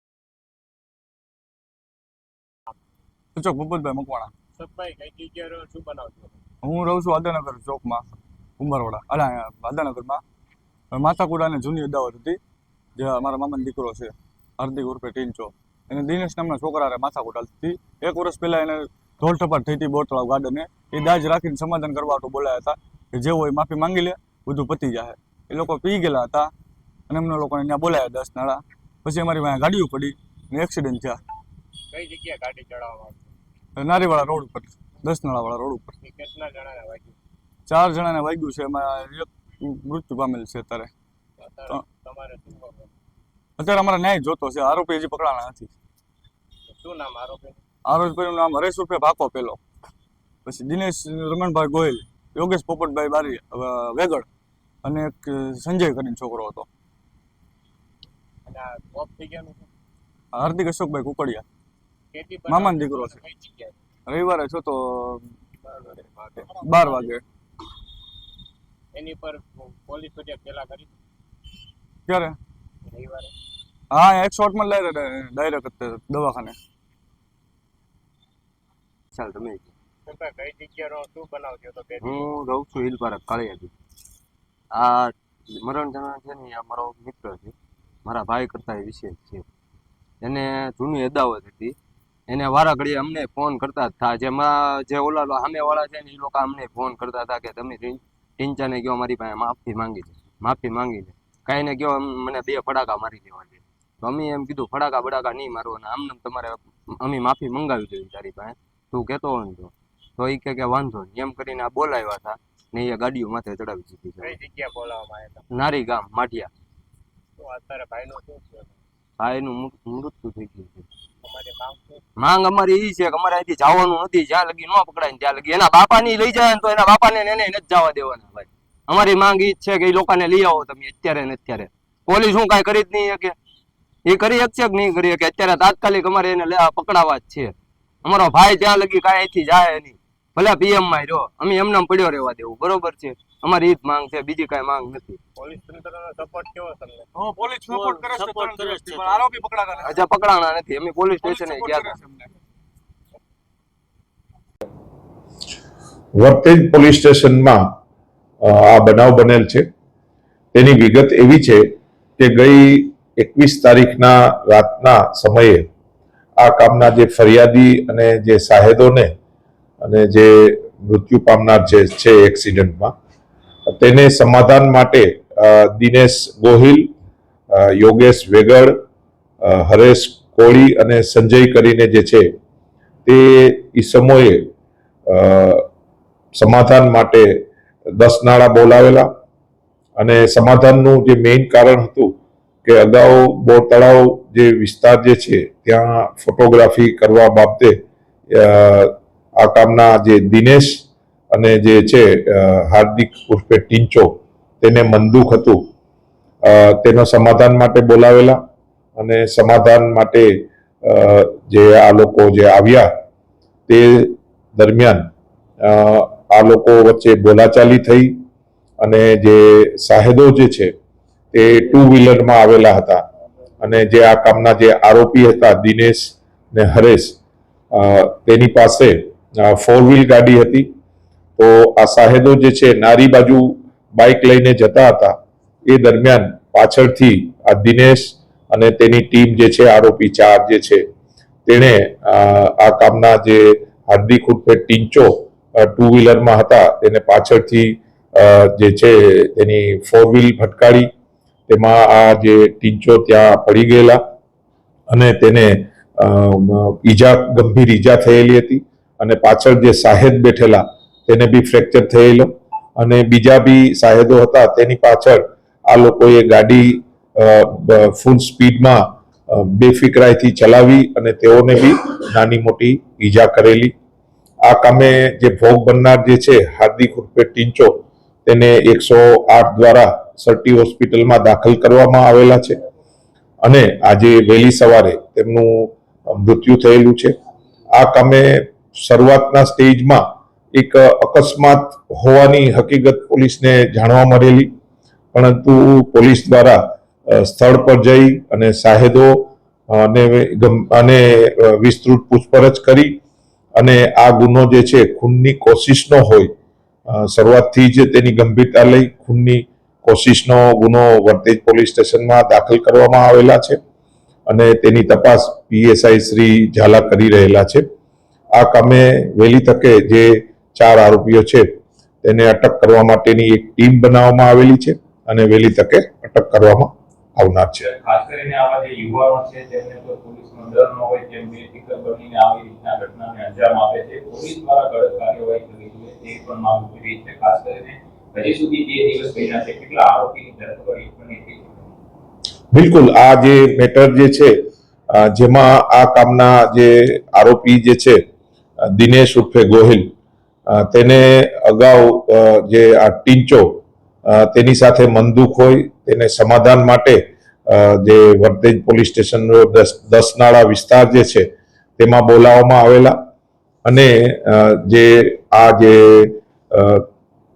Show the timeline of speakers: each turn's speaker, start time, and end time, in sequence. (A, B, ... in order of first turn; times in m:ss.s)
0:03.3-0:04.3 A
0:04.6-0:06.4 B
0:06.6-0:08.0 A
0:08.6-0:10.2 A
0:10.9-0:12.4 A
0:13.0-0:26.5 A
0:27.1-0:31.2 A
0:31.9-0:33.3 B
0:33.8-0:35.9 A
0:36.0-0:37.1 B
0:37.7-0:40.9 A
0:41.4-0:42.9 B
0:43.6-0:45.7 A
0:46.7-0:47.6 B
0:47.9-0:49.6 A
0:50.4-0:54.3 A
0:54.8-0:56.7 A
0:58.4-0:59.7 B
1:00.3-1:01.4 A
1:02.1-1:03.8 B
1:02.5-1:03.2 A
1:04.1-1:05.3 A
1:06.0-1:07.2 A
1:08.9-1:11.0 B
1:12.1-1:12.4 A
1:12.8-1:13.3 B
1:13.9-1:16.6 A
1:19.1-1:19.7 C
1:20.0-1:22.2 B
1:22.0-1:23.7 C
1:24.7-1:27.5 C
1:28.0-1:29.4 C
1:30.2-1:31.7 C
1:32.3-1:54.4 C
1:54.2-1:55.4 B
1:55.5-1:56.5 C
1:57.4-1:58.7 B
1:59.2-2:00.8 C
2:01.2-2:02.0 B
2:02.2-2:13.3 C
2:14.1-2:25.2 C
2:25.4-2:27.1 B
2:27.2-2:30.0 A
2:27.7-2:29.3 B
2:29.8-2:32.0 C
2:31.2-2:32.3 A
2:36.2-2:37.6 D
2:38.4-2:39.6 D
2:40.5-2:41.6 D
2:42.2-2:45.6 D
2:46.4-2:49.1 D
2:49.8-2:52.9 D
2:53.7-2:56.9 D
2:57.5-2:58.8 D
2:59.4-3:02.2 D
3:03.0-3:04.5 D
3:05.1-3:05.6 D
3:06.3-3:07.3 D
3:08.0-3:09.1 D
3:10.0-3:12.1 D
3:12.6-3:17.7 D
3:18.3-3:25.6 D
3:26.4-3:28.4 D
3:29.0-3:30.3 D
3:30.8-3:32.9 D
3:33.7-3:35.1 D
3:35.6-3:38.1 D
3:38.8-3:40.7 D
3:41.3-3:43.0 D
3:43.6-3:47.2 D
3:47.7-3:50.7 D
3:51.4-3:55.1 D
3:55.7-4:00.8 D
4:01.4-4:10.9 D
4:11.5-4:14.0 D
4:14.9-4:33.7 D
4:34.4-4:37.7 D
4:38.2-4:42.6 D
4:43.4-4:47.1 D
4:47.8-4:50.0 D
4:50.6-4:54.5 D
4:55.1-5:03.0 D
5:03.6-5:06.3 D
5:06.9-5:13.6 D
5:14.3-5:17.6 D
5:18.4-5:21.4 D
5:22.0-5:27.6 D
5:27.6-5:41.6 E
5:42.5-5:44.3 D
5:44.9-5:48.0 D
5:48.6-5:49.8 D
5:50.5-5:53.6 D
5:54.1-6:01.3 D
6:01.8-6:03.0 D
6:03.6-6:06.8 D